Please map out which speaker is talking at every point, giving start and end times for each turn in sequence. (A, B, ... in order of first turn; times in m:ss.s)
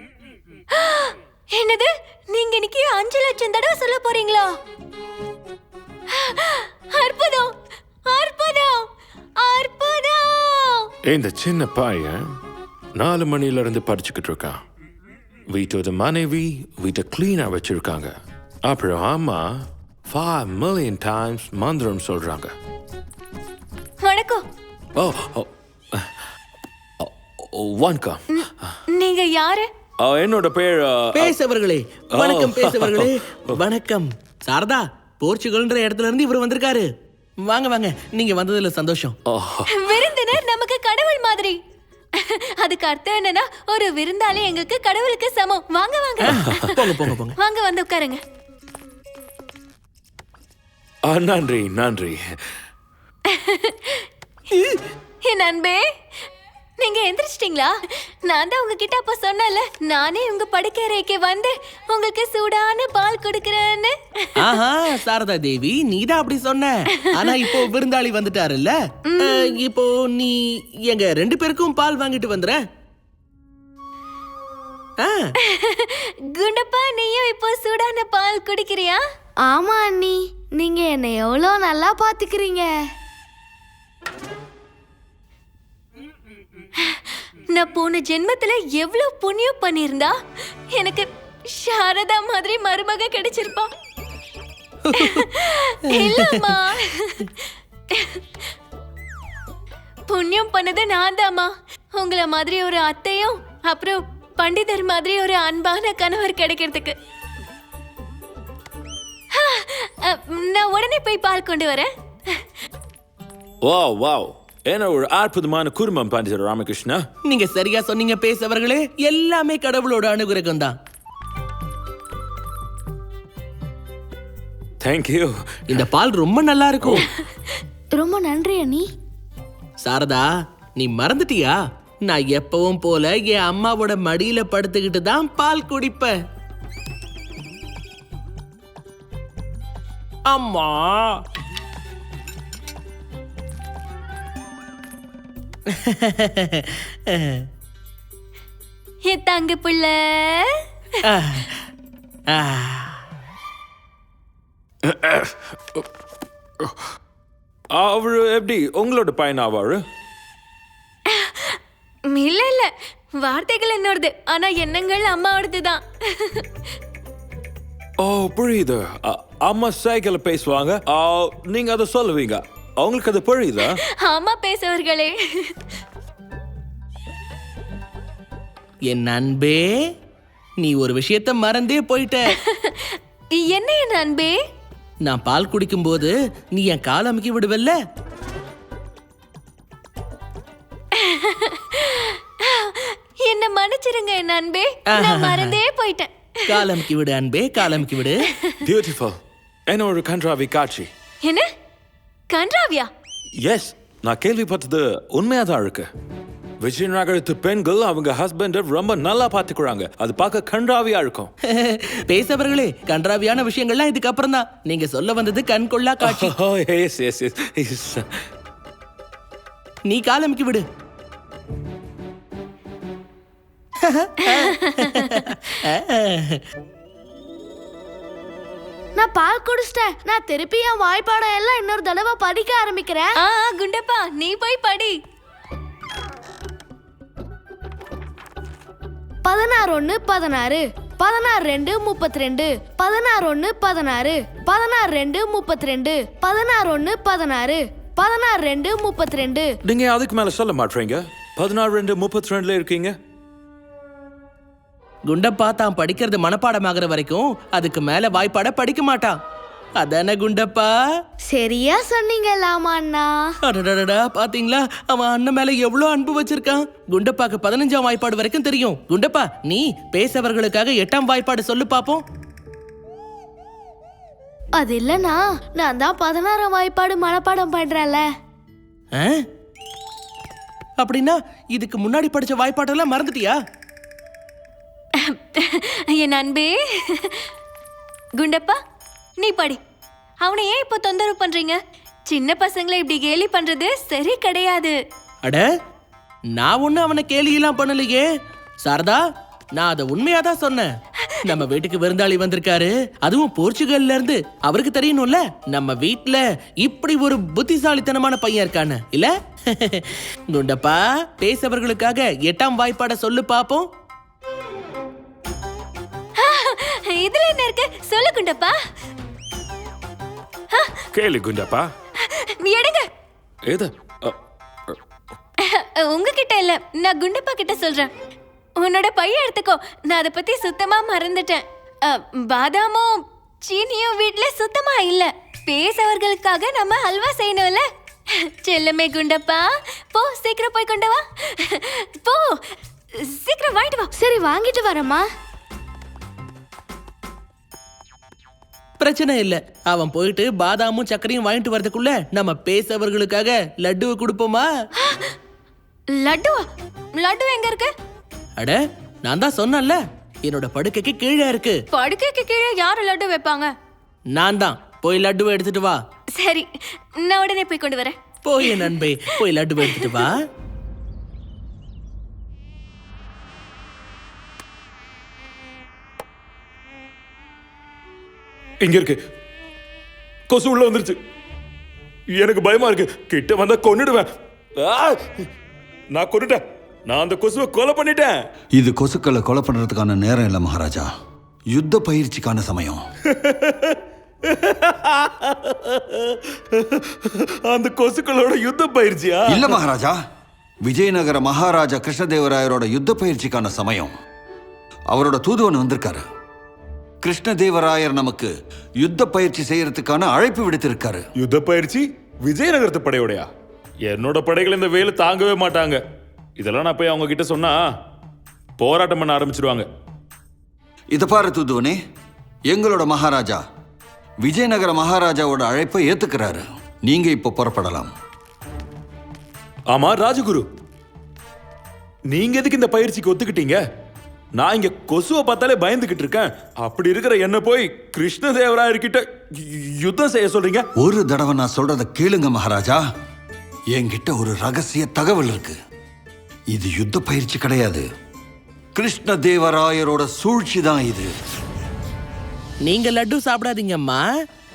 0:00.7-0:04.5 A
0:06.1-0:07.5 A
0:08.1-0:08.9 A
0:09.4-0:10.8 A
0:11.1-0:12.2 B
0:13.0-0:14.6 B
0:15.5-0:18.1 B
0:18.6-0:19.5 B
0:20.1-0:22.5 B
0:24.0-0:24.4 A
0:25.0-0:26.1 B
0:27.0-0:28.2 B
0:28.4-0:29.7 A
0:30.0-0:31.3 B
0:31.1-0:36.9 C
0:32.1-0:33.1 B
0:37.5-0:39.2 C
0:39.3-0:40.0 B
0:39.7-0:41.6 A
0:42.2-0:46.7 A
0:46.2-0:47.3 C
0:47.4-0:48.2 A
0:51.1-0:52.2 B
0:53.3-0:54.0 A
0:55.2-0:55.8 A
0:56.8-0:57.7 A
0:58.3-1:04.5 A
1:04.4-1:12.6 C
1:07.1-1:07.3 A
1:09.1-1:09.5 A
1:15.0-1:15.3 C
1:15.4-1:19.0 A
1:19.4-1:22.7 D
1:26.8-1:30.1 A
1:30.7-1:33.7 A
1:34.8-1:35.3 C
1:35.0-1:37.2 A
1:36.0-1:36.4 C
1:37.9-1:38.2 A
1:40.1-1:46.9 A
1:49.3-1:52.4 A
1:53.6-1:57.0 B
1:57.3-2:00.8 C
2:04.8-2:05.8 B
2:05.7-2:07.1 C
2:07.9-2:08.8 D
2:09.8-2:16.2 C
2:20.3-2:21.2 C
2:25.7-2:27.4 C
2:29.0-2:30.5 A
2:31.0-2:31.6 C
2:32.3-2:33.0 C
2:34.9-2:35.3 B
2:37.8-2:39.8 B
2:41.1-2:41.6 A
2:42.1-2:46.4 A
2:48.0-2:53.8 B
2:54.0-2:55.5 A
2:58.9-2:59.8 C
3:00.6-3:02.3 C
3:02.4-3:04.3 A
3:05.0-3:07.8 C
3:10.9-3:16.7 A
3:14.9-3:15.6 C
3:16.5-3:18.3 C
3:18.3-3:18.6 A
3:18.6-3:19.1 B
3:19.7-3:20.9 B
3:22.3-3:22.9 A
3:23.4-3:25.9 B
3:26.6-3:31.3 B
3:31.5-3:36.3 C
3:36.0-3:38.0 B
3:39.8-3:40.6 C
3:43.8-3:46.4 C
3:44.4-3:45.2 A
3:49.0-3:53.2 D
3:53.2-3:55.0 A
3:59.2-4:09.5 D
4:09.6-4:13.0 B
4:15.1-4:19.2 C
4:19.8-4:20.8 C
4:21.3-4:23.3 D
4:23.4-4:32.0 C
4:34.5-4:38.1 D
4:39.0-4:39.2 C
4:40.8-4:43.4 C
4:45.0-4:47.3 A
4:48.2-4:48.6 A
4:49.2-4:49.6 A
4:50.2-4:51.6 A
4:52.1-4:54.8 A
4:55.2-4:55.5 C
4:56.3-4:58.0 C
4:58.6-4:59.0 C
4:59.5-5:00.7 C
5:01.2-5:13.7 C
5:16.2-5:18.6 A
5:20.9-5:21.7 B
5:22.0-5:22.8 A
5:23.5-5:24.1 B
5:25.5-5:27.9 A
5:28.6-5:37.6 A
5:38.2-5:42.4 A
5:43.1-5:43.9 A
5:44.0-5:45.1 D
5:48.8-5:54.5 C
5:54.8-5:55.1 A
5:55.9-5:56.4 A
5:57.0-5:57.7 A
5:58.4-6:01.6 C
6:01.7-6:03.5 A
6:04.1-6:05.8 C
6:06.1-6:06.5 A
6:07.0-6:08.8 A
6:08.2-6:10.2 C
6:09.6-6:10.0 A
6:18.6-6:19.0 B
6:20.3-6:21.0 B
6:22.2-6:24.1 B
6:24.6-6:25.0 B
6:25.9-6:28.2 B
6:28.6-6:30.9 E
6:31.5-6:32.8 E
6:33.1-6:33.8 B
6:34.3-6:39.6 B
6:39.3-6:40.0 E
6:40.6-6:43.9 E
6:44.9-6:46.0 E
6:47.0-6:51.0 E
6:51.2-6:53.3 B
6:53.9-6:55.8 B
6:56.4-6:57.7 B
6:58.6-6:59.7 B
7:00.9-7:01.8 E
7:02.5-7:03.4 E
7:04.2-7:07.9 E
7:09.7-7:10.5 B
7:12.1-7:13.6 B
7:14.4-7:20.7 B
7:20.8-7:22.8 E
7:23.7-7:25.6 E
7:26.5-7:27.8 E
7:28.8-7:31.1 E
7:32.6-7:34.0 C